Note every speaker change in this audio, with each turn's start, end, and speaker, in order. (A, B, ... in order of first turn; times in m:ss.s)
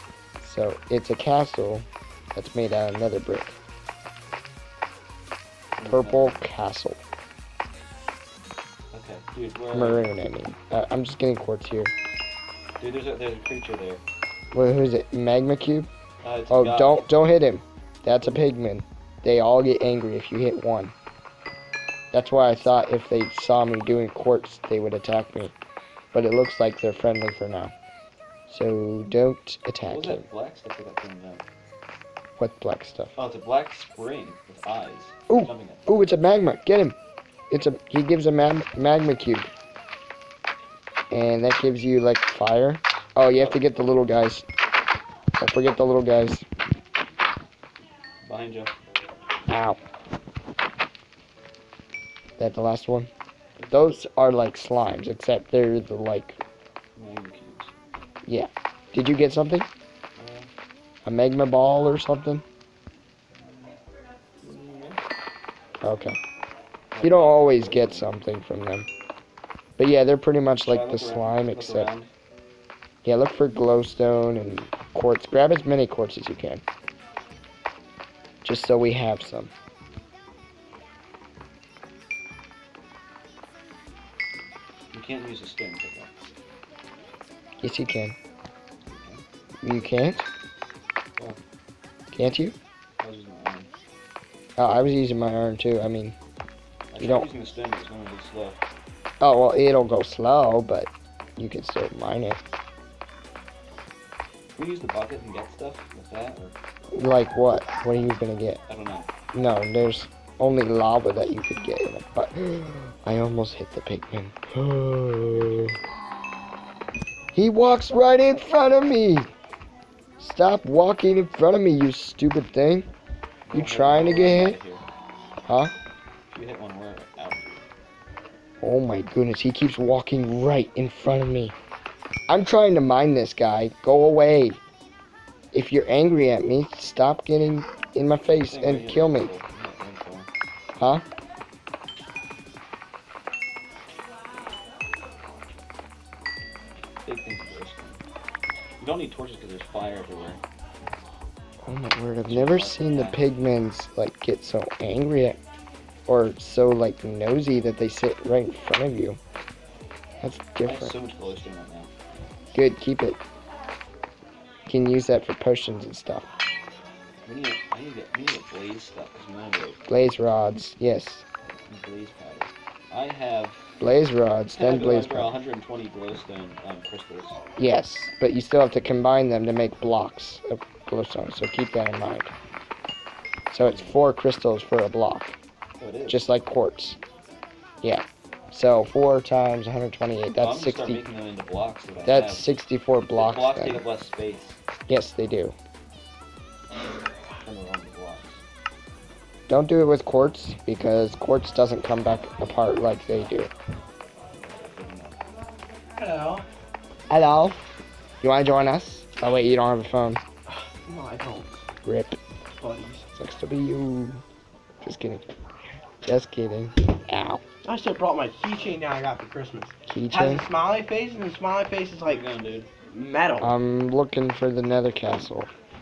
0:00.4-0:03.6 A
0:05.8-0:06.4 B
0:05.9-0:07.0 A
0:08.9-0:10.1 B
0:09.7-0:11.9 A
0:12.8-0:14.0 B
0:14.5-0:15.9 A
0:16.2-0:17.1 B
0:16.5-0:20.9 A
0:22.1-0:25.5 A
0:26.1-0:27.7 A
0:28.5-0:30.2 A
0:29.9-0:31.4 B
0:32.4-0:33.1 A
0:33.2-0:36.0 B
0:35.3-0:36.9 A
0:37.5-0:39.5 A
0:41.1-0:44.4 A
0:43.3-0:43.6 B
0:45.4-0:46.4 A
0:48.2-0:48.7 B
0:49.5-0:49.8 A
0:52.4-0:53.1 A
0:53.7-0:56.4 A
0:56.9-0:57.7 B
0:58.2-0:59.7 A
1:00.2-1:00.5 B
1:01.0-1:02.4 A
1:04.4-1:05.0 B
1:05.8-1:06.2 A
1:06.9-1:08.1 B
1:07.0-1:08.9 A
1:09.8-1:11.9 A
1:10.6-1:12.1 B
1:13.0-1:16.6 A
1:18.4-1:19.5 A
1:24.9-1:26.3 B
1:27.6-1:28.1 A
1:28.8-1:29.2 B
1:29.6-1:30.3 A
1:32.1-1:32.6 A
1:33.0-1:33.7 B
1:34.6-1:36.1 A
1:36.9-1:38.6 B
1:37.0-1:37.3 A
1:39.2-1:42.4 A
1:44.6-1:46.6 B
1:46.9-1:48.6 A
1:48.7-1:49.1 B
1:49.3-1:55.8 A
1:55.3-1:55.8 B
1:57.3-1:59.3 A
2:00.2-2:02.9 A
2:03.5-2:04.8 B
2:03.5-2:04.6 A
2:05.4-2:05.7 A
2:06.3-2:07.6 B
2:08.6-2:11.5 A
2:12.3-2:14.6 A
2:15.5-2:19.3 A
2:18.4-2:20.3 B
2:20.8-2:21.0 A
2:27.0-2:28.0 B
2:28.8-2:30.4 B
2:31.6-2:35.4 A
2:32.3-2:33.2 B
2:36.1-2:39.2 A
2:40.2-2:40.9 A
2:40.6-2:41.9 B
2:42.5-2:43.2 A
2:44.7-2:46.3 A
2:47.2-2:49.8 B
2:49.9-2:51.2 A
2:51.7-2:53.7 B
2:53.8-2:55.4 A
2:54.5-2:57.4 B
2:57.6-3:02.3 A
3:03.5-3:05.3 A
3:03.6-3:04.0 B
3:05.8-3:06.3 B
3:06.1-3:07.0 A
3:07.8-3:11.0 A
3:10.4-3:12.6 B
3:12.0-3:13.8 A
3:13.1-3:14.6 B
3:14.9-3:15.5 A
3:17.4-3:18.4 B
3:19.5-3:23.5 A
3:24.3-3:25.2 B
3:26.0-3:26.4 C
3:27.1-3:27.6 A
3:28.2-3:30.2 A
3:30.5-3:31.6 C
3:31.8-3:32.2 A
3:32.6-3:33.1 C
3:33.2-3:34.2 A
3:34.8-3:35.2 A
3:36.0-3:37.4 A
3:37.6-3:42.2 C
3:39.9-3:40.4 A
3:42.0-3:42.7 B
3:42.8-3:43.5 C
3:43.4-3:45.5 A